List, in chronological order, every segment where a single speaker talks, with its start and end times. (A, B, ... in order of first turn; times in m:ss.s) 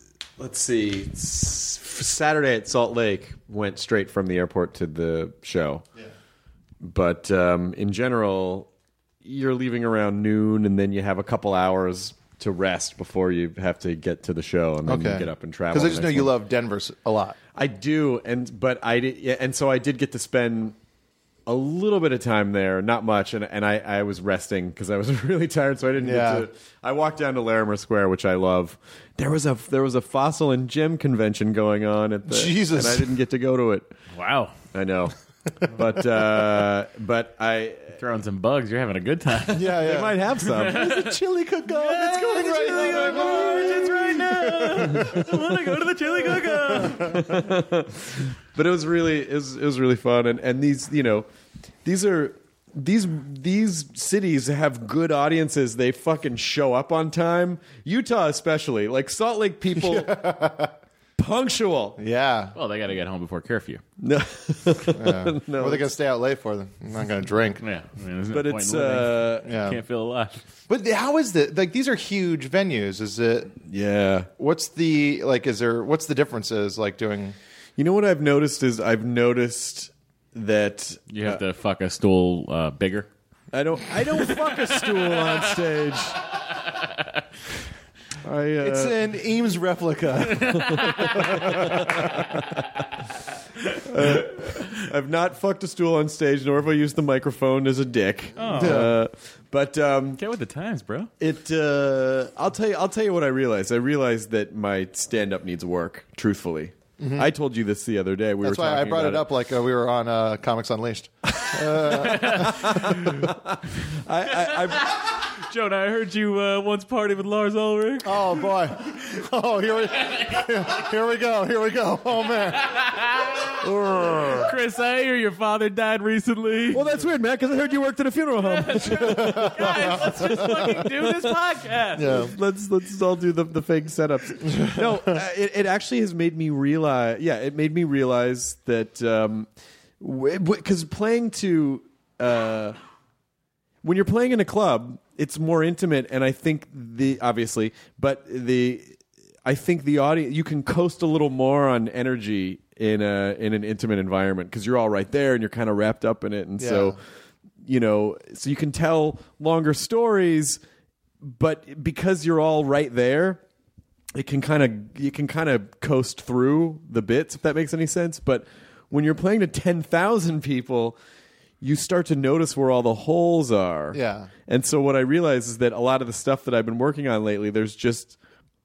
0:00.4-0:05.8 A
0:06.8-0:08.7 A
0:09.2-0:16.3 A
0:14.8-0:17.4 B
0:17.6-0:20.7 A
0:21.5-0:33.9 A
0:26.0-0:26.5 B
0:32.3-0:33.1 B
0:34.1-0:34.5 C
0:34.7-0:35.1 A
0:35.7-0:38.0 A
0:38.0-0:39.8 C
0:39.5-0:40.2 B
0:39.5-0:40.8 A
0:40.4-0:47.3 C
0:40.7-0:45.2 B
0:42.0-0:51.2 A
0:46.7-0:47.2 B
0:51.8-1:00.2 A
0:59.8-1:00.8 B
1:01.2-1:02.0 A
1:02.0-1:02.5 B
1:02.5-1:03.8 C
1:04.0-1:05.9 A
1:04.9-1:07.6 B
1:07.6-1:10.4 C
1:08.3-1:09.5 A
1:09.4-1:09.8 B
1:10.7-1:13.5 B
1:13.6-1:14.3 A
1:14.4-1:17.4 B
1:17.8-1:21.4 A
1:21.1-1:23.1 C
1:23.5-1:26.2 A
1:28.2-1:29.0 A
1:28.6-1:32.1 B
1:30.4-1:32.4 A
1:30.4-1:31.4 C
1:33.8-1:40.2 A
1:38.4-1:38.8 C
1:38.5-1:39.0 B
1:40.2-1:41.1 C
1:41.2-1:49.3 A
1:47.0-1:47.3 B
1:48.4-1:53.1 B
1:51.4-1:55.0 A
1:52.0-1:53.2 C
1:54.4-1:58.5 C
1:58.0-2:02.8 B
2:00.0-2:00.4 C
2:02.6-2:03.6 C
2:03.6-2:04.5 B
2:03.9-2:04.4 A
2:04.4-2:06.8 C
2:06.7-2:11.3 A
2:08.4-2:12.2 C
2:08.9-2:10.7 B
2:12.0-2:12.3 B
2:12.1-2:19.5 A
2:14.4-2:15.0 B
2:20.0-2:22.8 A
2:23.8-2:37.0 A
2:36.6-2:37.0 B
2:37.6-2:40.6 A
2:41.2-2:43.4 A
2:44.1-2:51.0 A
2:51.6-2:58.2 A
2:53.9-2:54.3 B